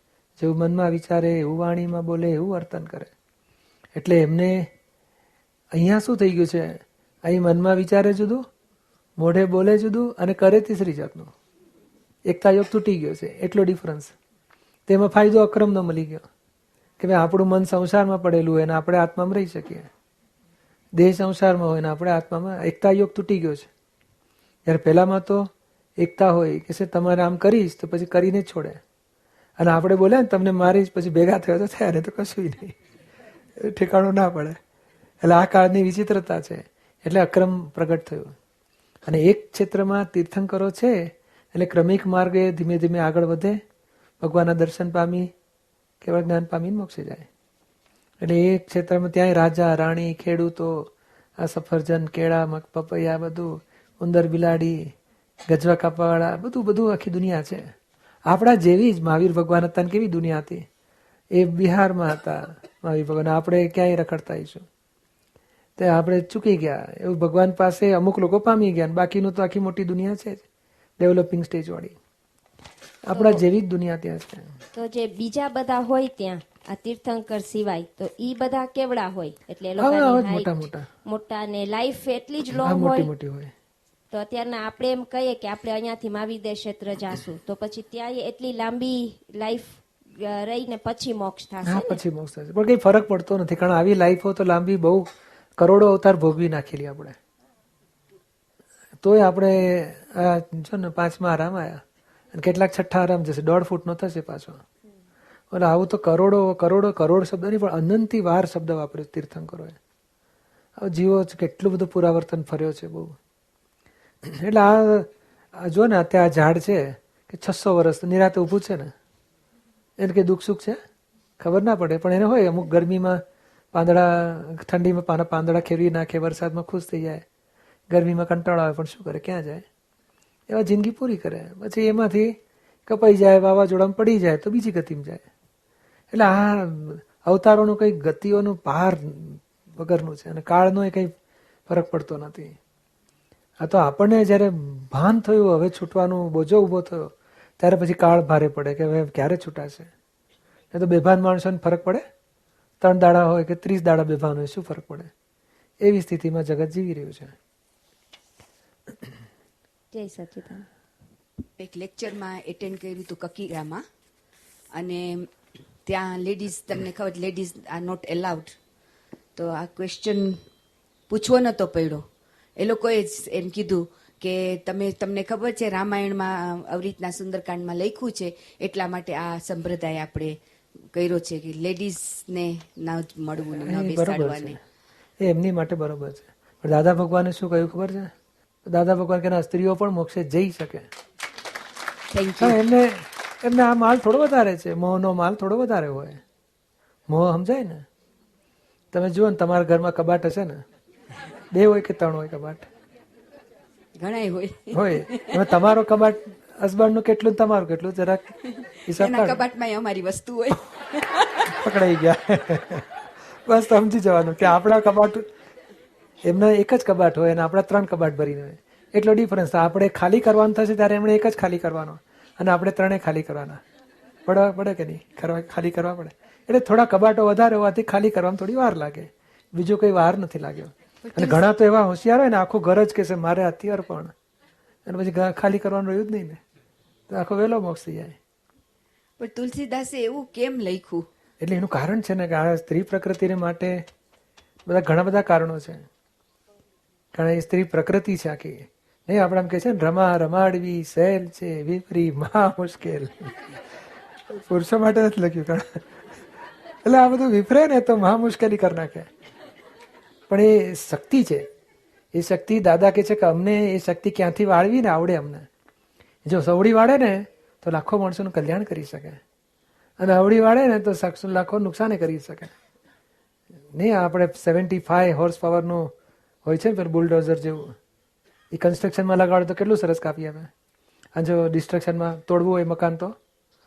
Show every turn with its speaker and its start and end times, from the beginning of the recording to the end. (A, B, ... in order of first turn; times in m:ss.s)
0:00.4-0:03.1 A
0:04.0-0:04.7 A
0:05.7-0:08.4 A
0:09.2-0:11.3 A
0:12.3-0:14.1 A
0:14.9-0:16.2 A
0:17.0-0:19.9 A
0:21.0-0:23.7 A
0:24.7-0:28.8 A
0:29.6-0:32.8 A
0:33.6-0:34.6 A
0:35.2-0:38.3 A
0:39.0-0:43.6 A
0:44.2-0:45.3 A
0:46.0-0:47.3 A
0:48.2-0:54.8 A
0:55.5-0:57.6 A
0:58.3-1:00.6 A
1:01.3-1:04.7 A
1:05.8-1:10.4 A
1:11.0-1:12.0 A
1:13.1-1:14.5 A
1:13.1-1:13.4 B
1:14.7-1:23.1 B
1:19.8-1:20.9 A
1:22.5-1:23.5 A
1:24.1-1:32.0 B
1:31.6-1:37.2 A
1:39.0-1:44.6 A
1:45.5-1:49.8 A
1:50.8-1:53.2 A
1:54.2-1:58.9 A
2:00.0-2:00.8 A
2:01.4-2:07.2 A
2:07.9-2:09.6 A
2:10.5-2:15.2 A
2:16.1-2:21.1 A
2:21.7-2:22.6 A
2:23.6-2:29.9 A
2:30.7-2:32.0 A
2:32.8-2:35.1 A
2:35.8-2:37.4 A
2:39.9-2:40.6 B
2:41.6-2:43.8 C
2:44.8-2:45.3 C
2:45.9-2:48.5 C
2:49.4-2:50.4 C
2:51.1-2:52.0 C
2:52.6-3:00.3 C
3:00.9-3:04.6 C
3:03.5-3:04.6 A
3:05.2-3:08.1 A
3:08.6-3:10.9 A
3:12.1-3:12.6 C
3:12.4-3:16.2 A
3:17.1-3:17.8 A
3:18.9-3:20.6 A
3:21.5-3:22.7 A
3:24.0-3:25.6 C
3:24.7-3:28.3 A
3:28.6-3:31.6 C
3:28.9-3:29.4 A
3:31.4-3:32.9 A
3:33.5-3:35.3 A
3:36.2-3:43.6 A
3:44.3-3:54.1 A
3:51.0-3:51.5 C
3:54.9-3:56.4 A
3:57.1-3:58.2 A
3:59.2-4:01.0 C
4:01.4-4:03.8 A
4:04.7-4:05.9 A
4:07.1-4:13.5 A
4:14.3-4:16.2 A
4:16.8-4:19.1 A
4:20.3-4:21.5 A
4:22.1-4:25.5 A
4:26.2-4:29.2 A
4:30.0-4:32.5 A
4:33.7-4:35.9 A
4:36.4-4:37.8 A
4:38.5-4:40.5 A
4:41.2-4:43.1 A